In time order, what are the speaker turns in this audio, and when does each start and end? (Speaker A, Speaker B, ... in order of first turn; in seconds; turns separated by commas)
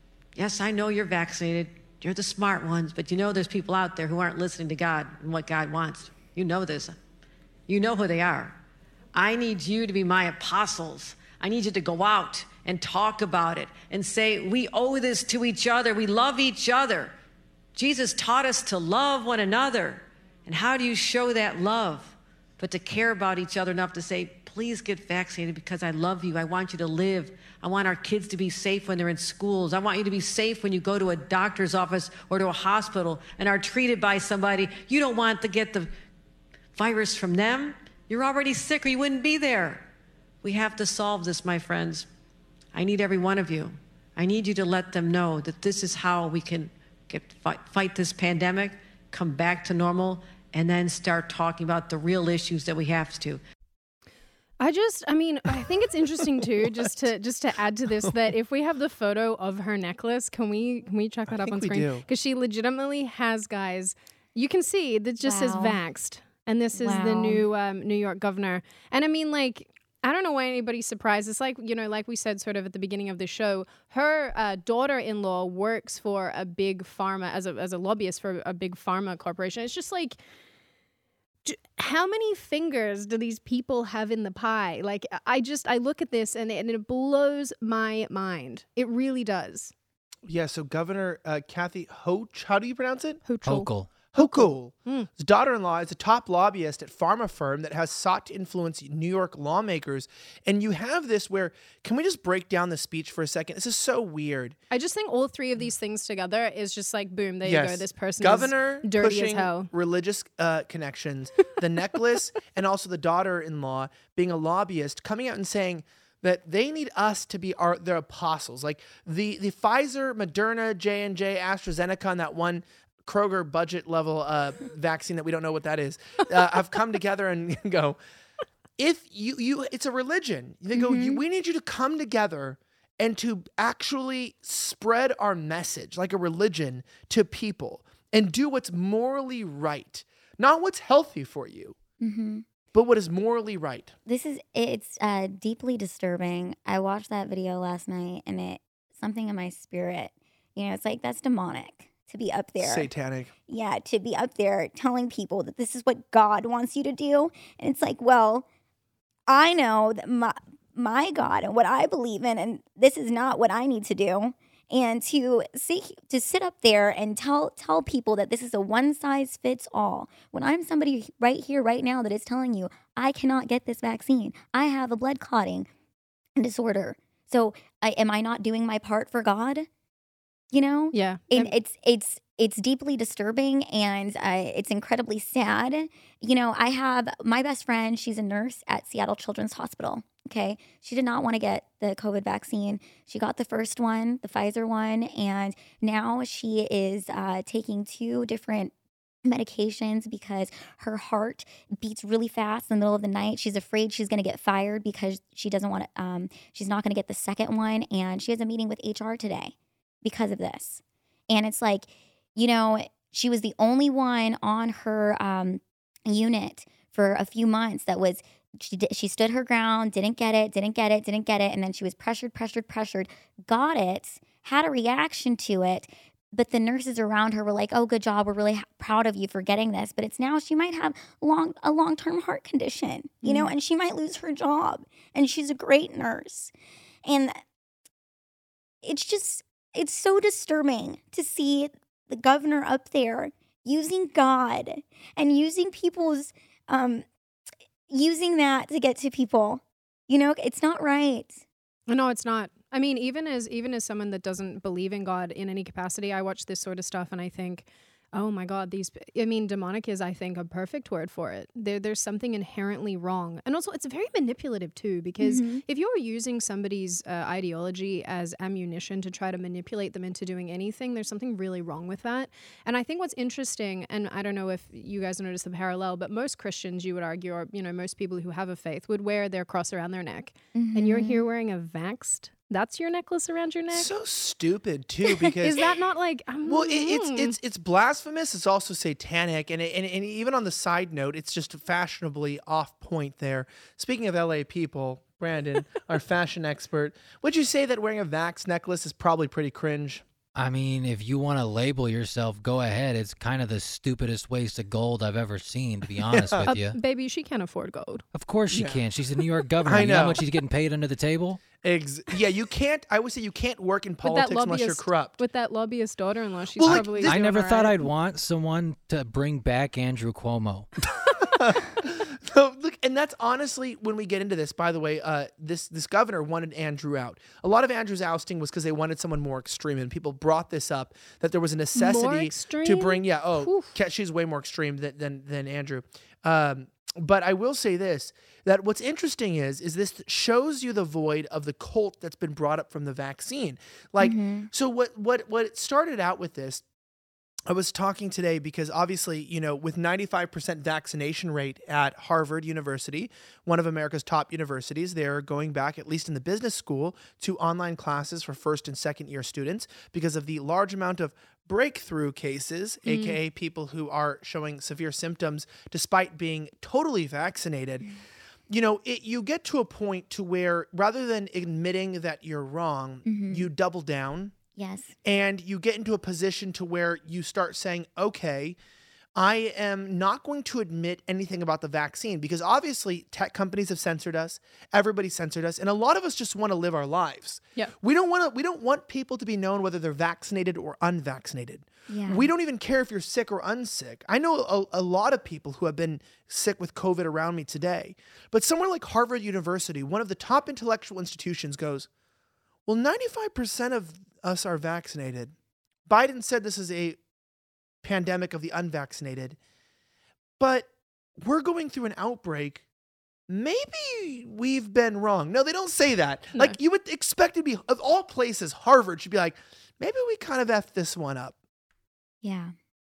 Speaker A: 0.3-7.0, Speaker A: 7.7-8.6, Speaker A: 9.1-17.1, Speaker A: 17.7-35.9, Speaker A: 36.7-39.9, Speaker A: 40.4-42.1, Speaker A: 42.7-53.4, Speaker B: 54.6-80.2, Speaker C: 61.3-62.0, Speaker D: 65.2-65.8, Speaker D: 66.8-67.4, Speaker B: 81.4-89.7, Speaker C: 90.2-93.2, Speaker B: 93.3-95.1, Speaker E: 93.5-93.9, Speaker C: 94.1-104.5, Speaker B: 104.7-109.7, Speaker C: 107.4-128.0, Speaker C: 128.8-141.8, Speaker D: 130.7-131.2, Speaker D: 142.0-142.4, Speaker C: 142.7-143.9, Speaker D: 144.1-152.9, Speaker C: 152.6-153.3, Speaker D: 153.5-158.4, Speaker D: 159.3-175.7, Speaker D: 176.4-179.7, Speaker D: 180.5-198.7, Speaker B: 180.9-181.5, Speaker D: 199.2-236.5, Speaker B: 233.2-233.5, Speaker D: 237.0-237.3, Speaker D: 238.8-247.0, Speaker D: 247.9-251.4, Speaker B: 251.9-283.9, Speaker D: 265.2-265.6, Speaker D: 280.5-281.2, Speaker C: 283.7-285.6, Speaker B: 285.4-287.4, Speaker C: 286.4-300.0, Speaker E: 300.4-306.8, Speaker C: 306.1-306.5, Speaker B: 306.4-308.1, Speaker E: 308.1-311.4, Speaker C: 308.5-308.8, Speaker C: 309.6-310.2, Speaker C: 311.6-315.2, Speaker B: 314.0-317.8, Speaker C: 316.6-317.1, Speaker E: 316.6-320.7, Speaker C: 321.2-346.6, Speaker B: 331.8-333.7, Speaker D: 344.0-344.5, Speaker C: 347.5-367.9, Speaker B: 362.9-363.2, Speaker C: 368.5-374.3, Speaker D: 373.1-373.5, Speaker D: 374.5-374.9, Speaker C: 375.0-378.6, Speaker C: 379.1-401.9, Speaker D: 391.9-392.3, Speaker C: 402.7-405.3, Speaker C: 405.9-407.0, Speaker C: 407.8-409.4, Speaker C: 410.4-410.7, Speaker C: 411.2-412.6, Speaker C: 413.3-421.3, Speaker D: 422.2-422.5